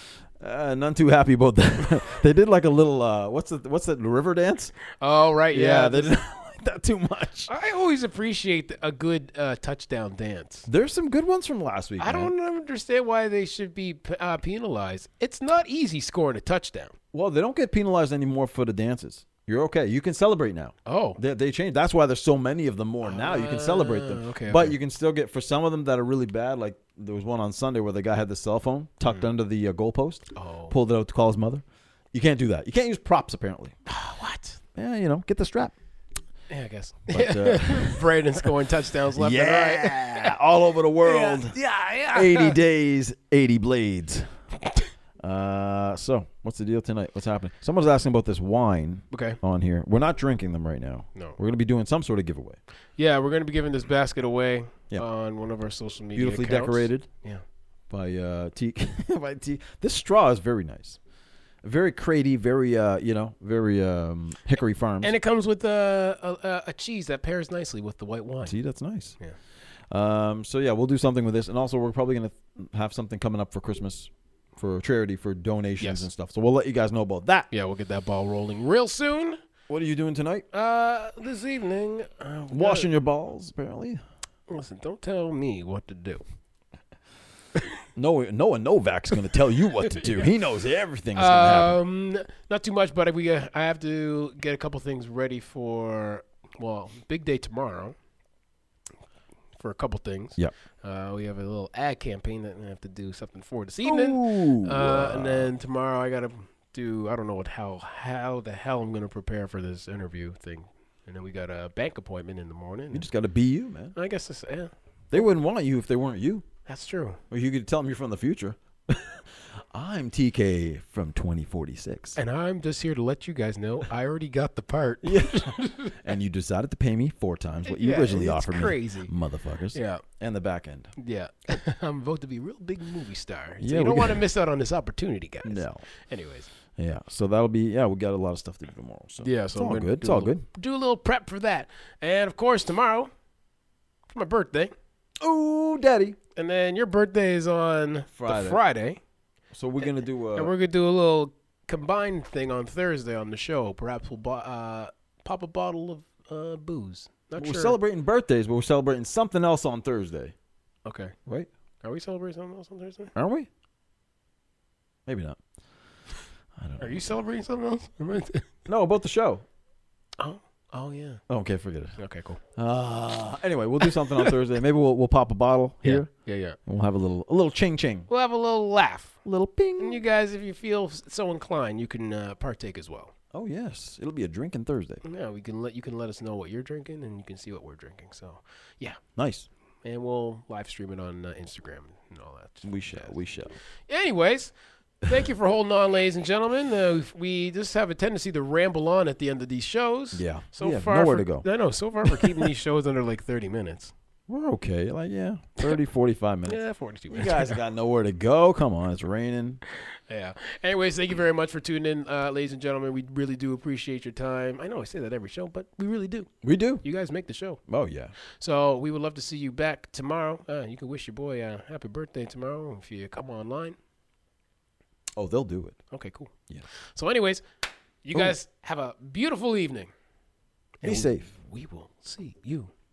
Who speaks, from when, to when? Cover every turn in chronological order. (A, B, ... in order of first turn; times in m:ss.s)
0:00.4-0:04.7 A
0:05.0-0:06.1 B
0:05.5-0:07.5 A
0:07.5-0:10.7 B
0:10.7-0:12.3 A
0:12.0-0:16.9 B
0:17.1-0:33.8 A
0:20.9-0:21.2 B
0:23.0-0:24.8 B
0:30.3-0:30.7 B
0:33.9-0:34.6 B
0:34.8-0:35.7 A
0:36.5-0:40.4 B
0:37.1-0:38.5 A
0:39.2-0:41.6 A
0:41.0-0:42.6 B
0:42.1-0:44.4 A
0:45.2-0:52.6 A
0:49.1-0:49.4 B
0:53.0-0:57.4 B
0:56.2-0:57.1 A
0:57.9-1:01.0 A
1:01.6-1:05.1 A
1:05.0-1:08.5 B
1:08.5-1:09.2 A
1:09.9-1:17.5 A
1:15.8-1:16.1 B
1:17.5-1:19.4 B
1:19.7-1:20.5 A
1:20.5-1:22.9 B
1:22.5-1:24.0 A
1:24.5-1:26.2 B
1:28.0-1:31.8 A
1:30.0-1:30.3 B
1:31.2-1:38.0 B
1:39.6-1:53.1 B
1:43.8-1:45.5 A
1:52.9-1:54.0 A
1:54.0-1:55.3 B
1:55.1-1:56.5 A
1:56.7-1:57.2 B
1:57.3-2:02.2 A
2:02.2-2:06.0 B
2:05.0-2:10.9 A
2:07.6-2:09.1 B
2:09.7-2:10.0 B
2:11.0-2:16.5 B
2:13.6-2:14.2 A
2:15.4-2:15.8 A
2:16.8-2:20.4 A
2:19.2-2:23.1 B
2:24.1-2:24.7 B
2:25.2-2:26.2 A
2:26.4-2:29.0 B
2:28.1-2:28.6 A
2:29.5-2:30.5 A
2:30.3-2:37.8 B
2:37.4-2:40.4 A
2:40.9-2:41.2 B
2:41.8-2:43.1 B
2:43.2-2:43.5 A
2:45.1-2:45.4 A
2:46.6-2:47.1 A
2:46.8-2:48.5 B
2:48.7-2:49.4 A
2:50.2-2:51.2 B
2:51.3-2:52.0 A
2:52.0-2:52.4 B
2:52.6-2:56.1 A
2:53.8-2:54.3 B
2:55.8-2:56.6 B
2:56.6-2:58.1 A
2:58.1-2:59.2 B
2:59.2-3:00.0 A
2:59.8-3:03.1 B
3:03.3-3:05.0 A
3:05.0-3:09.0 B
3:09.2-3:09.5 A
3:09.8-3:13.2 B
3:12.6-3:13.5 A
3:13.9-3:23.9 B
3:20.1-3:21.5 A
3:22.0-3:22.5 A
3:24.3-3:29.6 A
3:26.5-3:27.6 B
3:30.1-3:36.3 B
3:36.4-3:36.8 A
3:36.8-3:37.6 B
3:37.7-3:38.1 A
3:38.4-3:43.8 B
3:45.2-3:45.8 A
3:45.9-3:46.3 B
3:46.9-3:47.4 B
3:48.0-3:49.9 B
3:50.8-3:52.7 B
3:50.8-3:51.3 A